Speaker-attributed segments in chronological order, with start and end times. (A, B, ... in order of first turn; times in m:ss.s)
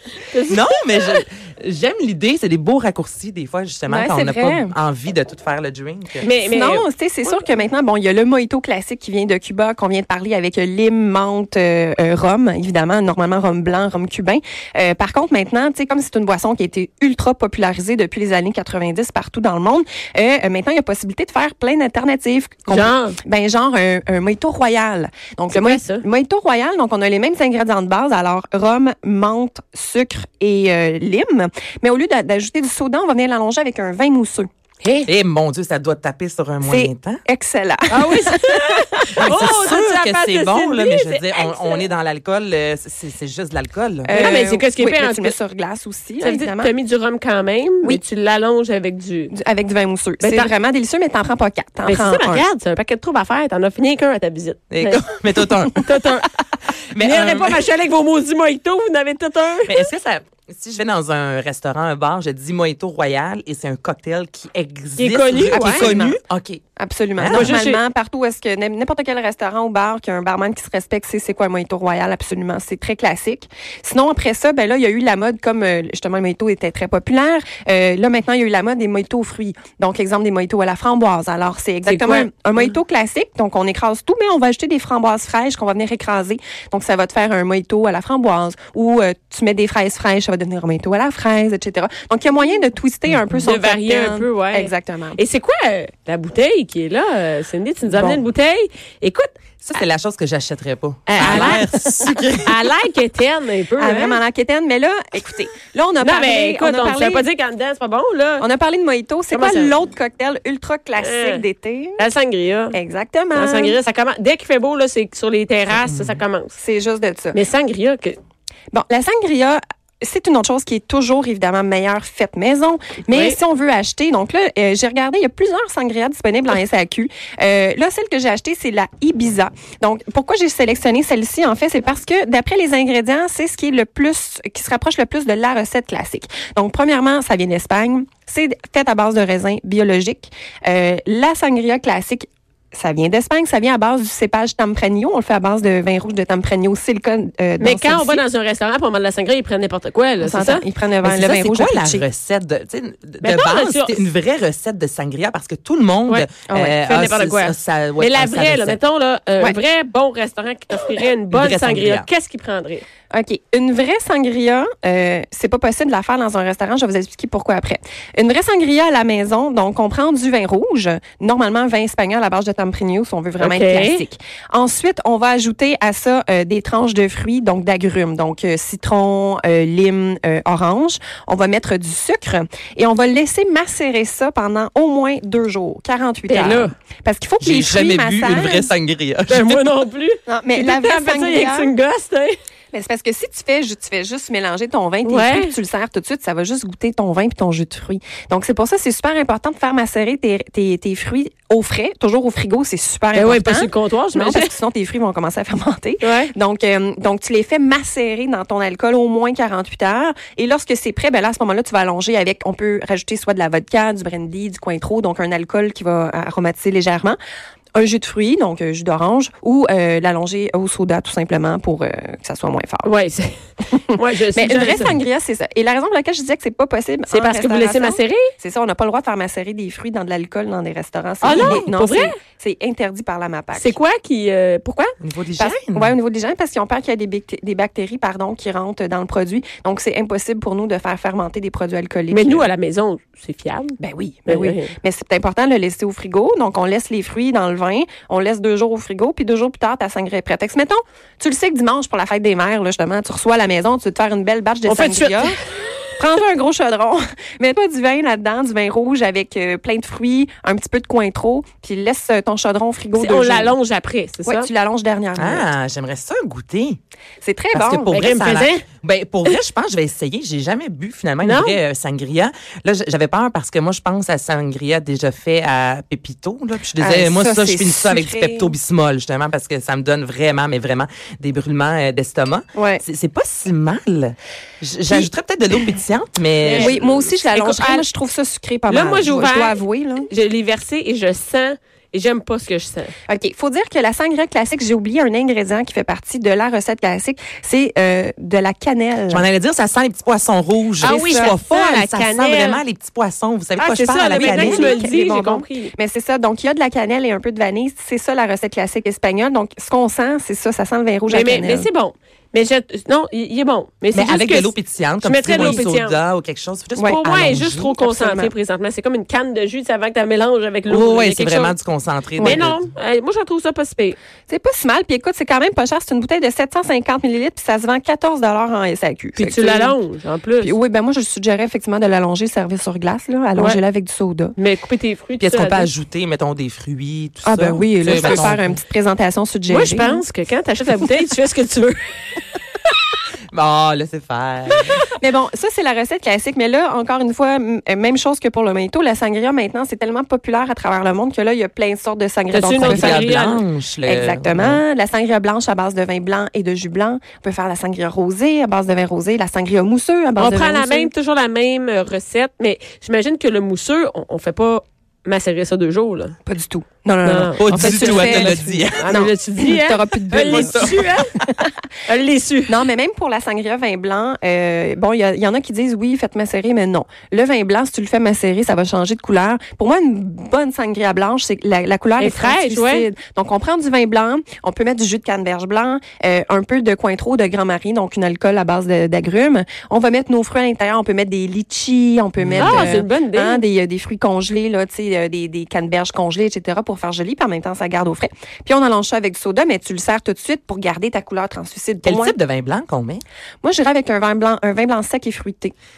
0:00.3-0:00.6 A
0:00.5-0:06.2 B
0:03.9-0:04.7 C
0:06.2-0:07.4 A
0:06.4-0:34.5 C
0:22.7-0:23.2 A
0:25.5-0:26.0 A
0:34.8-0:35.1 A
0:35.1-0:37.2 B
0:36.6-0:39.4 C
0:37.9-0:41.9 A
0:39.2-0:44.3 B
0:44.0-0:46.7 C
0:44.1-0:45.4 A
0:46.2-0:49.3 A
0:49.3-0:52.4 C
0:50.2-0:50.5 A
0:51.8-0:55.0 A
0:54.7-0:55.9 B
0:55.7-0:56.3 A
0:56.9-0:57.6 B
0:57.0-0:59.9 A
0:59.7-1:06.6 B
1:05.0-1:06.0 A
1:05.5-1:06.2 C
1:06.8-1:35.2 C
1:07.2-1:07.6 B
1:07.3-1:07.8 A
1:21.9-1:22.3 A
1:33.4-1:39.3 A
1:39.6-1:42.5 B
1:41.1-1:41.9 A
1:41.2-1:41.7 C
1:42.4-1:44.2 A
1:43.8-1:47.2 C
1:46.0-1:48.5 A
1:48.4-1:52.0 C
1:49.3-1:49.8 A
1:51.0-1:51.4 A
1:52.0-1:52.8 A
1:52.7-1:53.8 C
1:53.3-1:56.5 A
1:55.8-1:56.2 B
1:56.6-1:57.4 C
1:57.3-1:58.2 A
1:58.7-2:28.2 C
2:03.1-2:03.4 A
2:27.6-2:30.6 A
2:30.2-2:32.0 C
2:31.0-2:38.8 B
2:33.2-2:34.1 A
2:36.1-2:42.8 A
2:36.5-2:36.8 C
2:41.3-2:42.1 B
2:43.1-3:08.7 C
2:53.4-2:54.0 A
3:06.3-3:06.7 A
3:07.4-3:09.7 B
3:09.3-3:12.4 A
3:10.3-3:11.7 C
3:12.7-3:37.2 C
3:15.0-3:15.5 A
3:23.1-3:24.5 A
3:26.0-3:26.3 A
3:37.7-3:42.9 C
3:42.8-3:44.9 A
3:43.7-3:53.8 C
3:47.1-3:48.3 A
3:51.2-3:52.2 A
3:51.3-3:51.6 B
3:53.6-3:54.9 A
3:55.0-3:56.0 B
3:55.4-4:02.5 C
4:02.1-4:04.7 A
4:03.8-4:15.4 C
4:14.7-4:15.4 A
4:16.0-4:23.6 C
4:23.0-4:24.5 A
4:24.2-4:25.4 C
4:25.2-4:26.8 B
4:27.2-4:28.0 C
4:27.5-4:47.0 B
4:27.9-4:28.6 A
4:31.2-4:31.6 A
4:36.8-4:38.5 C
4:42.5-4:42.8 C
4:46.4-4:47.8 A
4:46.5-4:50.1 C
4:48.7-4:49.6 A
4:50.1-4:52.9 A
4:53.1-4:59.2 C
4:59.1-5:04.8 B
5:00.8-5:01.3 C
5:00.8-5:02.6 A
5:03.6-5:05.7 A
5:04.1-5:11.7 C
5:11.1-5:16.0 A
5:13.9-5:17.7 B
5:15.3-5:15.6 C
5:16.8-5:18.3 C
5:16.8-5:21.5 A
5:20.7-5:22.6 B
5:22.2-5:22.4 C
5:22.2-5:24.0 A
5:24.3-5:29.8 C
5:29.2-5:30.5 A
5:30.4-5:34.3 C
5:34.4-5:35.7 A
5:35.2-5:38.6 B
5:37.2-5:40.0 C
5:37.8-5:38.3 A
5:39.5-5:41.8 A
5:43.3-5:44.8 B
5:45.0-5:53.1 C
5:52.3-5:53.4 A
5:52.6-5:54.6 B
5:53.8-6:00.9 C
6:00.2-6:06.2 A
6:06.2-6:10.8 C
6:07.0-6:11.2 A
6:07.4-6:09.1 B
6:10.2-6:11.0 B
6:11.8-6:12.6 A
6:12.5-6:42.2 C
6:22.0-6:22.9 A
6:32.2-6:32.8 B
6:32.4-6:33.4 A
6:41.8-6:43.0 B
6:43.4-6:45.5 C